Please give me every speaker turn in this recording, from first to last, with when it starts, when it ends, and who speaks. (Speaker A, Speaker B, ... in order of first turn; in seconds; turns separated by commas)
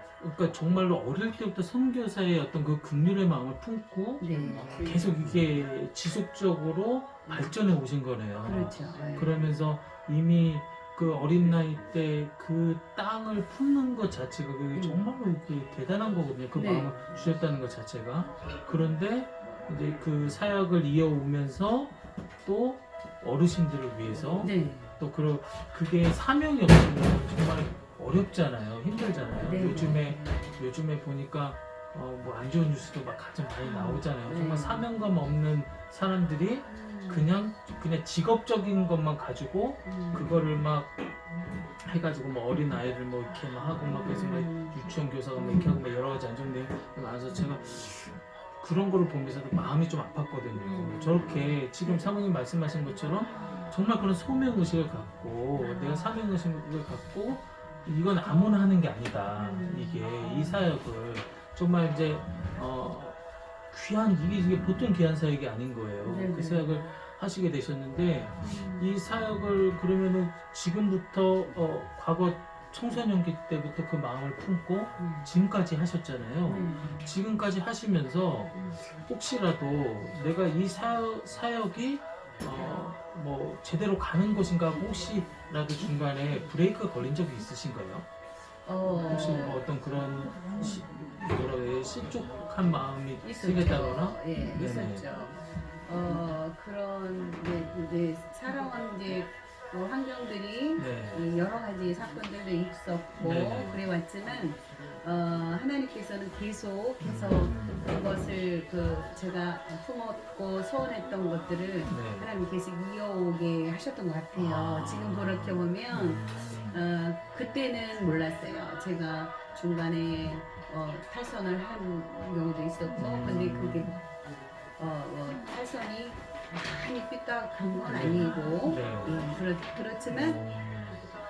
Speaker A: 0.2-41.0, Speaker B: 4.2-5.1, Speaker B: 7.2-7.5, Speaker B: 8.4-9.5, Speaker B: 14.7-15.1, Speaker B: 16.5-16.9, Speaker B: 24.4-24.9, Speaker B: 29.4-30.6, Speaker B: 33.6-34.9, Speaker B: 36.7-37.3, Speaker B: 39.8-40.5, Speaker A: 41.8-63.2, Speaker B: 43.8-44.8, Speaker B: 45.4-45.8, Speaker B: 50.5-52.1, Speaker B: 53.2-53.7, Speaker B: 55.5-56.1, Speaker B: 59.3-60.6, Speaker A: 63.7-88.1, Speaker B: 66.0-66.9, Speaker B: 68.4-68.9, Speaker B: 75.0-75.3, Speaker B: 76.5-77.1, Speaker B: 78.5-78.8, Speaker B: 88.6-89.7, Speaker A: 89.0-95.1, Speaker B: 93.2-124.0, Speaker A: 100.8-101.2, Speaker A: 103.2-103.8, Speaker A: 107.0-107.9, Speaker A: 111.9-112.3, Speaker A: 114.3-116.8, Speaker A: 122.9-124.0, Speaker B: 124.8-130.4, Speaker A: 127.8-129.3, Speaker A: 130.1-131.0